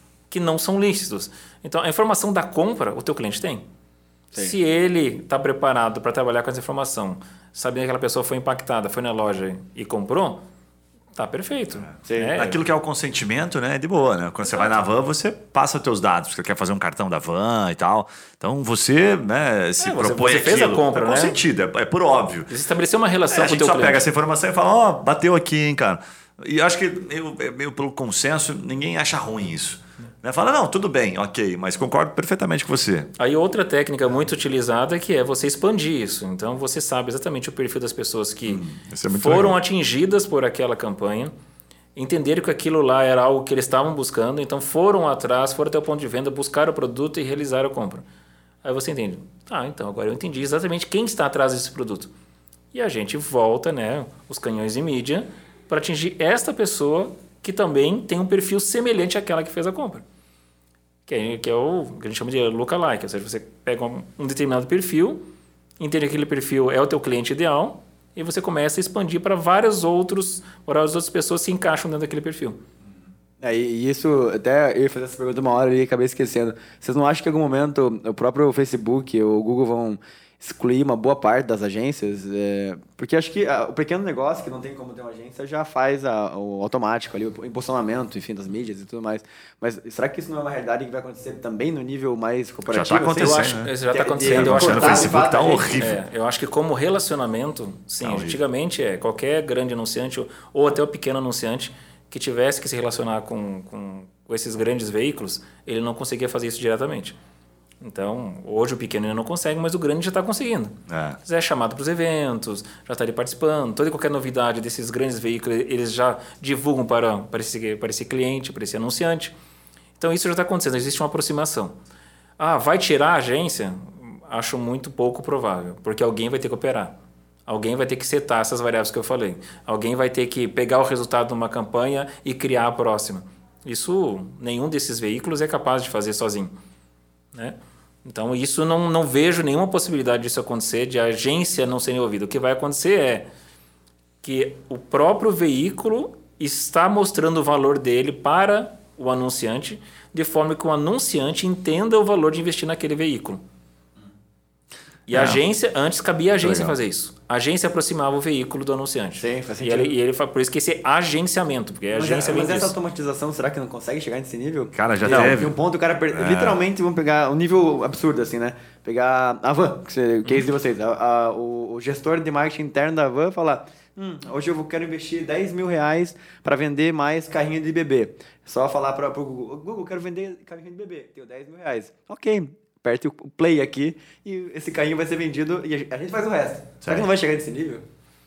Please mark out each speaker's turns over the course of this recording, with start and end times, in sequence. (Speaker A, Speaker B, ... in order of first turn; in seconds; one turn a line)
Speaker A: 0.3-3.6
Speaker A: 4.4-10.4
Speaker A: 11.2-12.6
Speaker B: 11.9-22.5
Speaker C: 12.1-12.3
Speaker A: 14.5-14.8
Speaker A: 19.8-21.4
Speaker A: 22.5-24.0
Speaker B: 23.3-33.1
Speaker A: 33.2-41.3
Speaker B: 38.5-39.5
Speaker A: 42.0-48.0
Speaker A: 48.6-52.1
Speaker A: 52.7-60.0
Speaker A: 61.1-65.3
Speaker A: 65.8-72.6
Speaker C: 73.4-95.9
Speaker B: 92.7-93.7
Speaker A: 93.2-95.2
Speaker B: 94.3-96.0
Speaker A: 95.8-107.2
Speaker B: 98.0-98.4
Speaker A: 107.8-119.3
Speaker B: 110.9-111.2
Speaker A: 120.0-121.8
Speaker A: 122.4-126.9
Speaker A: 127.5-136.5
Speaker A: 137.3-143.3
Speaker A: 144.2-153.4
Speaker A: 155.1-162.7
Speaker B: 155.1-155.4
Speaker B: 156.4-156.8
Speaker C: 159.2-159.9
Speaker C: 161.9-187.8
Speaker B: 164.7-165.6
Speaker B: 166.1-166.6